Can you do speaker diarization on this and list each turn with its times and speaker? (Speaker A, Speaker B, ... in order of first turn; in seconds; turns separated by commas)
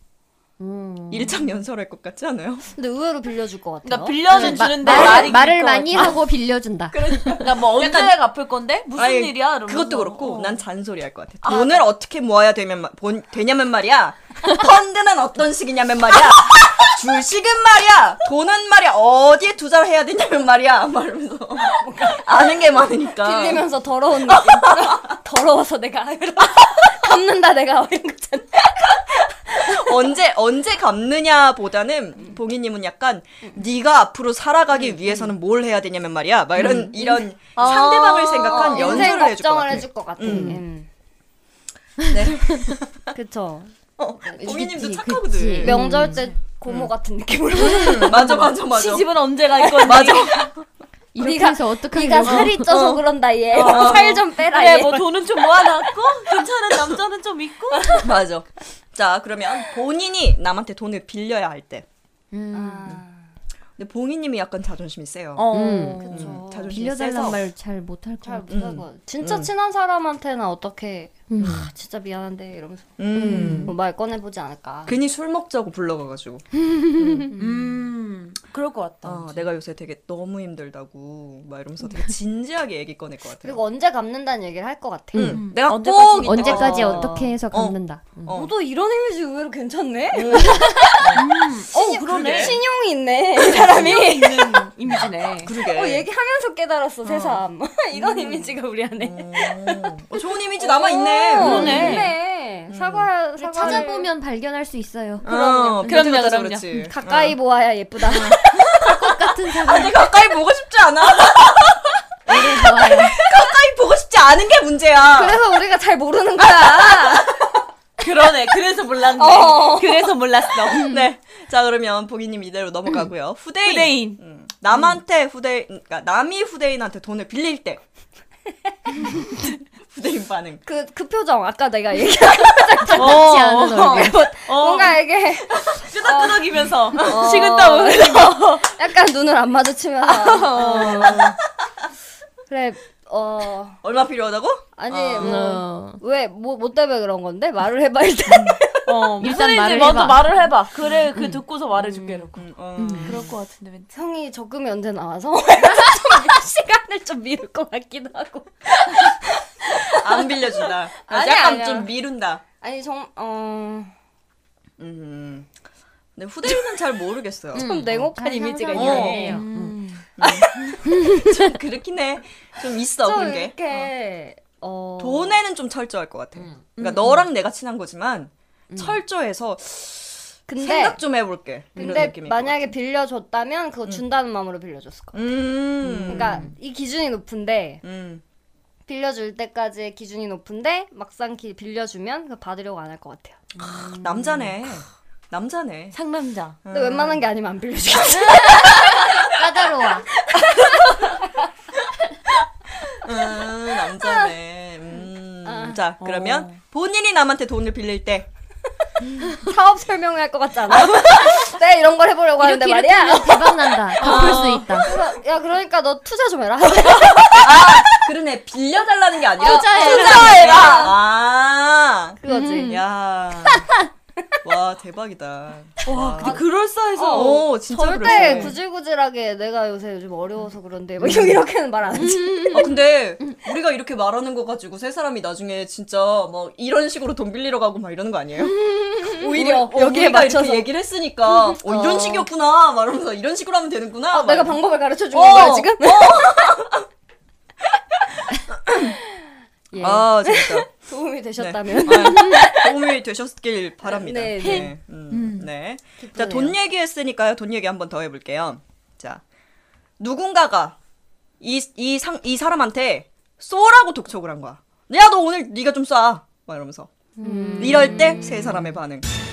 Speaker A: 0.6-1.5, Speaker B: 1.1-2.7, Speaker C: 2.8-5.3, Speaker D: 3.8-6.2, Speaker A: 4.3-7.4, Speaker B: 6.9-8.1, Speaker D: 7.4-10.6, Speaker B: 9.0-23.7, Speaker D: 11.4-11.8, Speaker C: 21.8-29.9, Speaker B: 24.3-25.0, Speaker B: 29.6-40.6, Speaker A: 36.6-36.9, Speaker D: 37.5-39.0, Speaker C: 38.5-40.9, Speaker A: 40.2-40.6, Speaker A: 42.1-42.6, Speaker B: 42.1-43.0, Speaker C: 43.1-44.5, Speaker B: 44.0-46.0, Speaker A: 44.4-46.2, Speaker C: 45.6-48.3, Speaker B: 47.6-49.1, Speaker D: 48.4-50.5, Speaker B: 49.7-50.6, Speaker A: 51.1-52.7, Speaker C: 51.2-55.1, Speaker B: 52.5-54.2, Speaker D: 53.5-58.1, Speaker B: 57.9-61.9, Speaker A: 62.3-63.0, Speaker C: 62.5-63.3, Speaker B: 63.8-65.5, Speaker D: 65.4-66.3, Speaker A: 65.5-68.6, Speaker C: 66.0-66.8, Speaker B: 66.1-67.4, Speaker C: 68.2-73.0, Speaker B: 68.5-69.5, Speaker A: 71.3-71.7, Speaker B: 71.4-71.7, Speaker B: 73.0-73.7, Speaker A: 73.1-73.7, Speaker C: 73.5-75.0, Speaker B: 74.9-76.5, Speaker B: 77.0-77.3, Speaker A: 77.0-77.5, Speaker D: 77.3-79.5, Speaker B: 79.0-83.6, Speaker C: 83.4-85.4, Speaker A: 85.1-85.4, Speaker B: 85.1-88.5, Speaker D: 85.3-87.0, Speaker A: 86.2-88.4, Speaker C: 86.6-87.3, Speaker C: 88.3-91.1, Speaker B: 90.1-92.6, Speaker D: 91.1-92.6, Speaker C: 91.7-94.7, Speaker B: 93.5-94.7, Speaker D: 94.1-95.5, Speaker B: 95.4-96.1, Speaker C: 95.7-100.0, Speaker B: 97.0-102.1, Speaker C: 100.6-104.1, Speaker D: 101.4-102.1, Speaker B: 102.7-103.1, Speaker A: 103.4-105.3, Speaker C: 105.2-106.0, Speaker B: 105.2-107.4, Speaker D: 105.8-106.8, Speaker C: 106.9-108.8, Speaker B: 108.1-109.0, Speaker A: 108.7-110.1, Speaker B: 109.5-115.4, Speaker A: 112.3-113.2, Speaker C: 115.0-117.4, Speaker B: 116.6-117.2, Speaker D: 118.0-120.9, Speaker C: 119.2-120.1, Speaker B: 120.7-127.8, Speaker A: 120.8-121.0, Speaker D: 123.6-124.2, Speaker B: 129.2-130.6, Speaker C: 130.7-141.3, Speaker A: 132.9-134.2, Speaker D: 132.9-138.7, Speaker B: 137.0-137.2, Speaker D: 140.1-141.4, Speaker B: 140.6-141.3, Speaker C: 142.5-143.8, Speaker B: 143.8-145.4, Speaker C: 144.8-148.9, Speaker A: 145.2-146.0, Speaker B: 148.3-148.6, Speaker D: 148.9-152.4, Speaker A: 149.2-150.4, Speaker A: 151.1-151.4, Speaker B: 152.3-153.3, Speaker A: 152.8-153.2, Speaker D: 153.0-153.9, Speaker C: 153.9-160.4, Speaker B: 159.8-162.4, Speaker C: 161.0-161.9, Speaker C: 162.6-163.9, Speaker B: 164.8-165.5, Speaker B: 166.2-167.7, Speaker A: 167.5-169.8, Speaker C: 167.6-169.4, Speaker B: 168.7-169.4, Speaker D: 169.2-170.0, Speaker B: 170.2-173.9, Speaker C: 170.2-170.9, Speaker A: 170.9-171.4, Speaker C: 173.0-175.4, Speaker B: 175.0-182.7, Speaker D: 176.8-177.2, Speaker A: 178.7-179.0, Speaker C: 180.5-181.0, Speaker C: 181.8-185.2, Speaker A: 181.8-182.1, Speaker B: 185.1-186.5, Speaker A: 185.8-186.5, Speaker C: 186.1-187.8, Speaker B: 187.8-188.2, Speaker C: 188.9-193.4, Speaker A: 193.6-194.3, Speaker B: 193.6-196.0, Speaker D: 195.9-196.6, Speaker B: 196.6-197.2, Speaker C: 196.7-199.3, Speaker A: 198.2-200.1, Speaker C: 200.6-201.2, Speaker B: 202.9-208.3, Speaker C: 204.0-204.3, Speaker C: 205.4-205.8, Speaker D: 206.0-206.6, Speaker C: 209.3-213.6, Speaker A: 212.4-214.9, Speaker D: 214.0-214.8, Speaker B: 214.0-214.6, Speaker C: 214.8-217.7, Speaker B: 217.3-223.7, Speaker A: 219.4-220.7, Speaker C: 219.4-220.9, Speaker D: 219.7-220.9, Speaker C: 222.2-222.8, Speaker A: 222.3-222.8, Speaker B: 224.4-226.4, Speaker D: 225.8-227.5, Speaker C: 226.2-232.7, Speaker B: 227.1-228.6, Speaker B: 231.0-231.4, Speaker A: 232.0-232.8, Speaker B: 232.5-246.8, Speaker C: 238.6-240.7, Speaker C: 241.5-242.3, Speaker C: 244.1-246.6, Speaker B: 248.3-249.0, Speaker C: 249.7-252.8, Speaker B: 249.8-250.7, Speaker B: 251.4-259.2, Speaker C: 253.9-254.7, Speaker D: 254.4-255.5, Speaker C: 256.0-256.6, Speaker B: 260.0-260.8, Speaker B: 261.4-266.9, Speaker A: 267.2-268.7, Speaker C: 267.2-267.6, Speaker B: 267.6-269.1